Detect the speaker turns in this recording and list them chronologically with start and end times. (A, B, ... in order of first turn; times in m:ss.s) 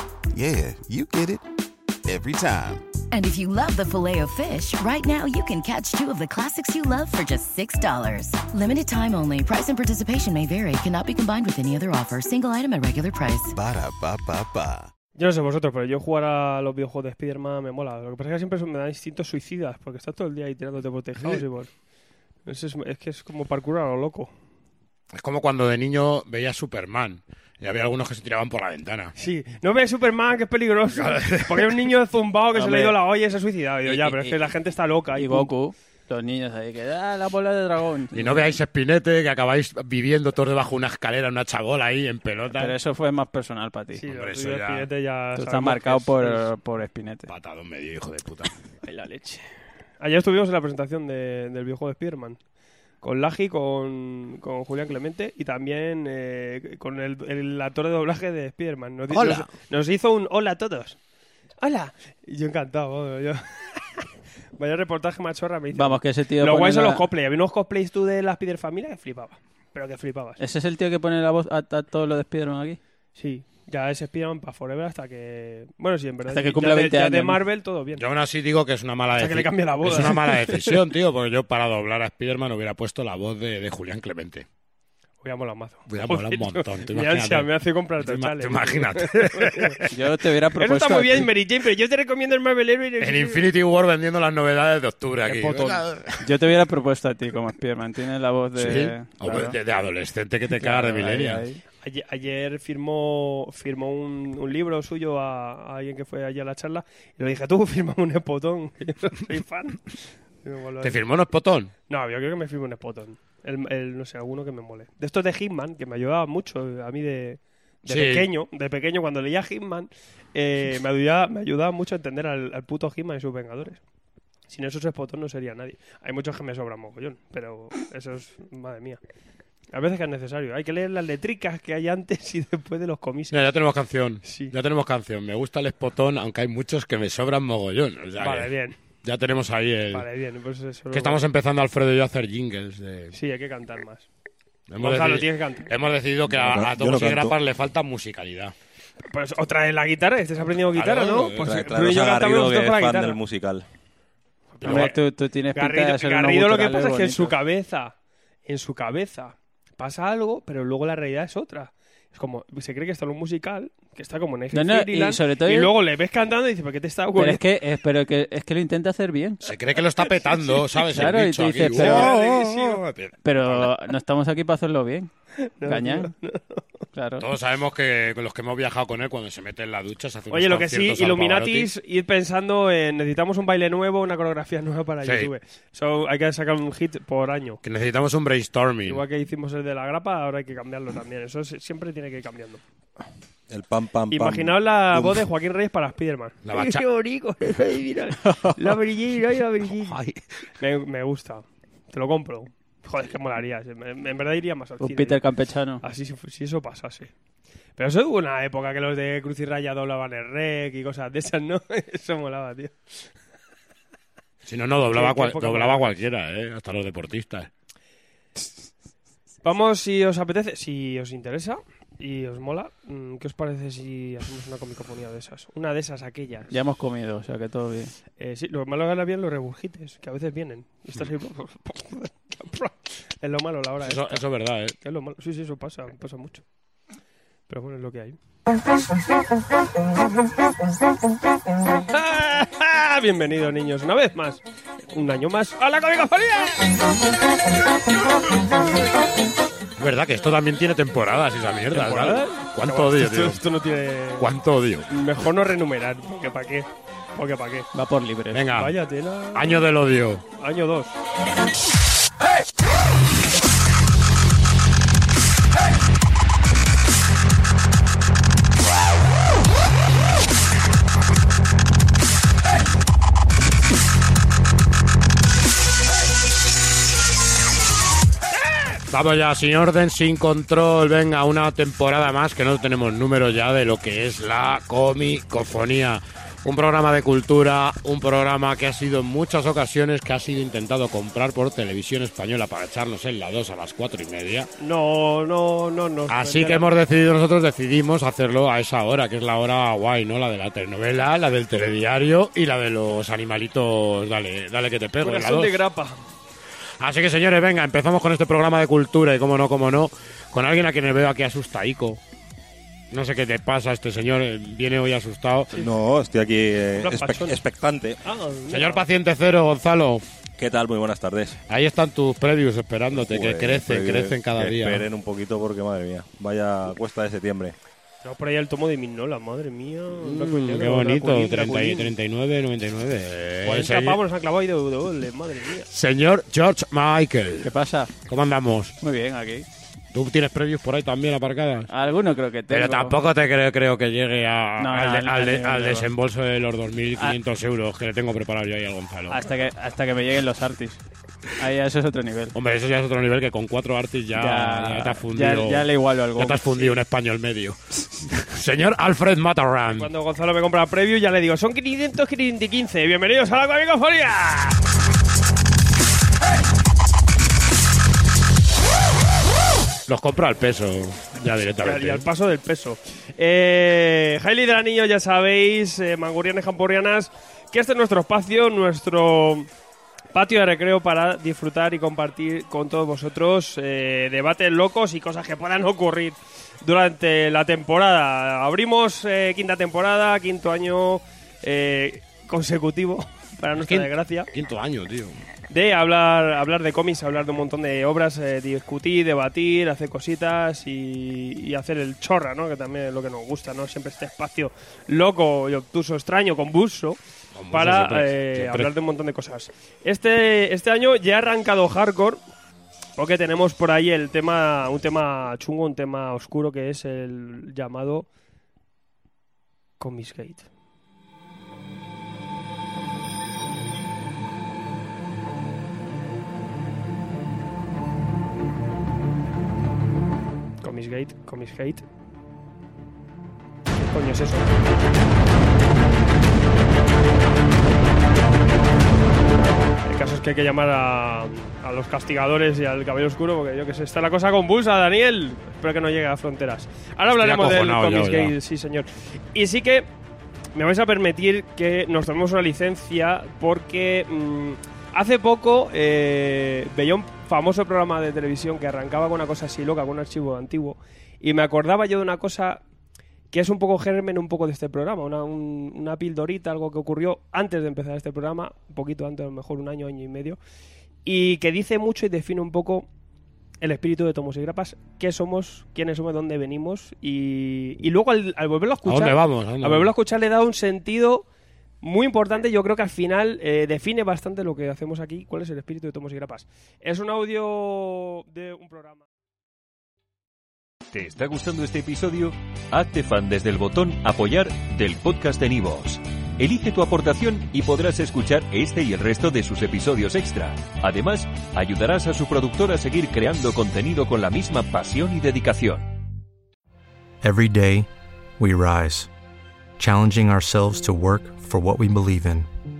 0:00.3-0:01.4 A
0:02.0-0:03.0 A
0:03.1-0:13.5 B
0:13.5-0:14.9 A
0:15.2-0:21.7 C
0:22.4-0:24.3 C
0:25.1-0:29.1 D
0:29.2-0:35.5 C
0:31.0-0:31.7 D
0:32.5-0:33.0 E
0:33.8-0:34.3 E
0:35.1-0:38.6 E
0:38.1-0:42.8 D
0:42.5-0:44.0 E
0:44.0-0:46.5 C
0:44.1-0:44.9 D
0:45.3-0:47.3 E
0:47.3-0:48.5 D
0:48.8-0:49.5 E
0:50.0-0:52.4 C
0:53.0-1:01.0 C
0:59.1-0:59.5 D
1:01.6-1:10.4 C
1:05.7-1:07.0 E
1:10.4-1:12.8 E
1:13.2-1:18.0 C
1:16.3-1:17.4 E
1:18.0-1:24.4 D
1:19.1-1:20.7 C
1:25.2-1:29.8 C
1:25.9-1:29.9 D
1:29.9-1:31.3 E
1:30.5-1:33.4 C
1:33.0-1:36.2 D
1:35.3-1:39.6 E
1:35.3-1:35.7 C
1:38.6-1:41.4 D
1:40.5-1:41.6 E
1:41.8-1:51.0 C
1:50.8-1:51.7 D
1:51.9-2:03.8 C
1:57.9-1:58.2 D
2:04.5-2:09.0 C
2:09.7-2:13.4 C
2:13.3-2:18.5 D
2:14.2-2:14.5 C
2:18.2-2:18.8 C
2:19.0-2:20.0 D
2:19.9-2:21.2 C
2:20.9-2:23.1 D
2:23.1-2:24.1 C
2:24.7-2:28.5 D
2:24.8-2:25.7 C
2:26.3-2:27.4 F
2:29.0-2:33.2 C
2:30.7-2:31.5 D
2:31.4-2:33.6 F
2:34.5-2:35.0 C
2:34.6-2:34.9 D
2:34.6-2:37.3 E
2:35.5-2:37.9 C
2:38.4-2:47.4 C
2:44.5-2:45.7 E
2:47.1-2:49.4 E
2:49.4-2:53.7 D
2:50.2-2:50.6 C
2:50.8-2:52.1 E
2:51.7-2:52.8 C
2:53.2-2:55.1 E
2:55.4-2:56.6 C
2:55.6-2:56.1 E
2:56.9-2:57.3 E
2:57.2-3:01.7 D
3:00.3-3:07.6 C
3:05.0-3:05.3 D
3:07.6-3:09.0 D
3:08.8-3:12.6 C
3:13.5-3:15.2 F
3:14.1-3:20.0 C
3:16.4-3:16.8 D
3:19.8-3:20.2 D
3:20.6-3:25.2 C
3:24.8-3:25.8 E
3:25.8-3:27.1 C
3:27.8-3:32.7 C
3:34.4-3:37.5 D
3:34.9-3:36.0 C
3:39.4-3:46.5 C
3:46.5-3:47.9 E
3:48.2-3:54.2 C
3:53.8-3:54.7 D
3:54.8-3:56.4 C
3:57.5-3:58.2 C
4:01.9-4:06.7 C
4:09.8-4:13.4 D
4:11.7-4:14.3 C
4:14.2-4:14.9 D
4:14.9-4:17.7 C
4:17.7-4:18.5 E
4:18.3-4:18.7 D
4:18.5-4:19.6 C
4:19.3-4:20.2 D
4:20.4-4:20.9 C
4:38.9-4:54.5 D
4:54.6-4:56.7 C
4:56.1-5:05.6 D
5:05.0-5:06.0 C
5:06.8-5:12.0 D
5:12.9-5:15.6 D
5:15.5-5:18.0 F
5:16.8-5:17.4 C
5:18.0-5:18.8 C
5:18.5-5:20.0 D
5:20.4-5:21.4 F
5:21.5-5:24.9 D
5:22.9-5:27.5 F
5:28.0-5:31.9 C
5:30.0-5:34.0 D
5:33.4-5:35.7 C
5:35.7-5:37.5 D
5:37.4-5:37.9 E
5:38.0-5:38.8 D
5:38.8-5:39.4 E
5:39.9-5:41.7 D
5:41.7-5:43.0 E
5:42.5-5:49.2 D
5:44.6-5:45.9 E
5:49.1-5:50.8 E
5:51.4-5:52.4 E
5:52.4-5:59.9 D
5:54.1-5:56.5 E
5:59.7-6:04.6 C
6:09.9-6:12.0 D
6:11.6-6:19.5 C
6:20.1-6:34.3 C
6:33.6-6:35.2 D
6:35.5-6:47.0 C
6:47.3-6:48.7 D
6:47.5-6:52.2 C
6:53.0-6:58.1 C
6:59.8-7:00.5 C
7:10.6-7:11.8 C
7:13.7-7:14.7 C
7:19.8-7:29.9 C
7:27.1-7:28.3 D
7:30.5-7:42.6 C
7:43.3-7:50.4 C
7:51.0-7:52.9 C
7:53.6-8:01.2 C
7:58.8-7:59.9 D
8:01.8-8:09.0 C
8:10.9-8:25.9 G
8:27.2-8:27.9 H
8:28.4-8:29.1 H
8:29.8-8:32.5 H